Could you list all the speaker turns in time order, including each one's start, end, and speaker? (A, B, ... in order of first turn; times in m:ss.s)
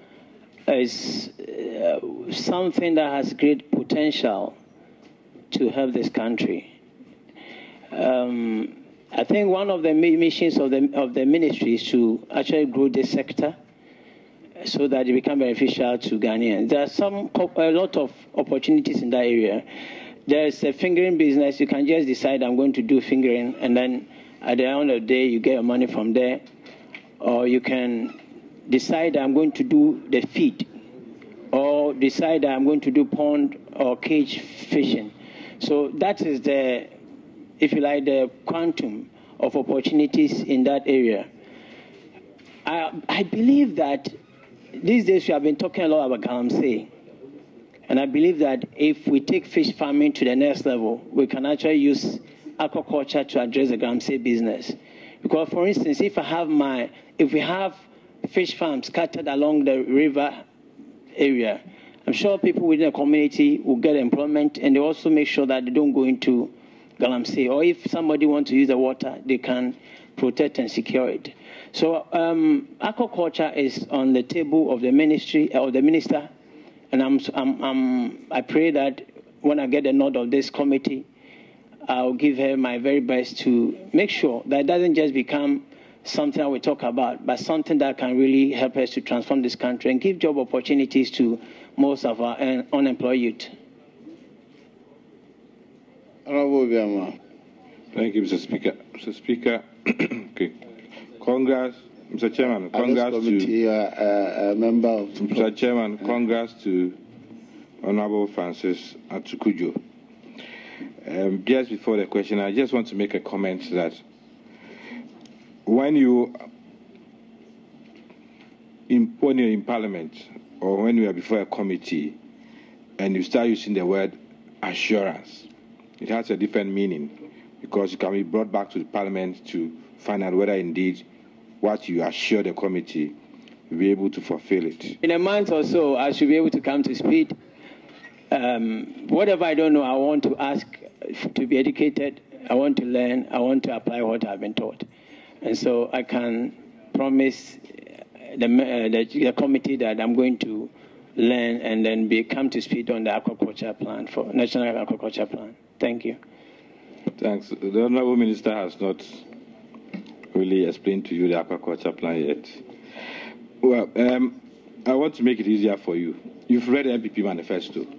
0:00.7-0:04.6 A
0:05.5-0:06.7 A
0:07.9-0:13.6 A
0:14.6-0:19.6 A
0:20.3-0:26.4 A
0:27.2-0:28.2 A
0:28.7-0:30.7 A
0:31.5-0:36.9 A
0:37.6-0:41.3 A
0:42.6-0:44.1 A
0:44.8-0:46.9 A
0:47.9-1:00.4 A
1:01.2-1:16.3 A
1:16.9-1:21.1 A
1:21.9-1:33.5 A
1:36.3-1:37.2 B
1:37.9-1:40.6 C
1:41.2-1:43.5 C
1:42.7-1:45.5 B
1:45.2-1:47.0 C
1:47.8-1:49.8 C
1:51.0-1:54.0 C
1:55.7-1:56.3 C
1:58.9-2:02.2 C
2:03.0-2:05.5 C
2:06.0-2:11.0 C
2:11.6-2:13.2 C
2:13.7-2:15.0 C
2:15.0-2:17.3 A
2:18.3-2:24.8 A
2:25.4-2:27.6 A
2:28.3-2:36.2 A
2:37.2-2:39.2 C
2:40.3-2:42.6 C
2:43.6-2:47.9 C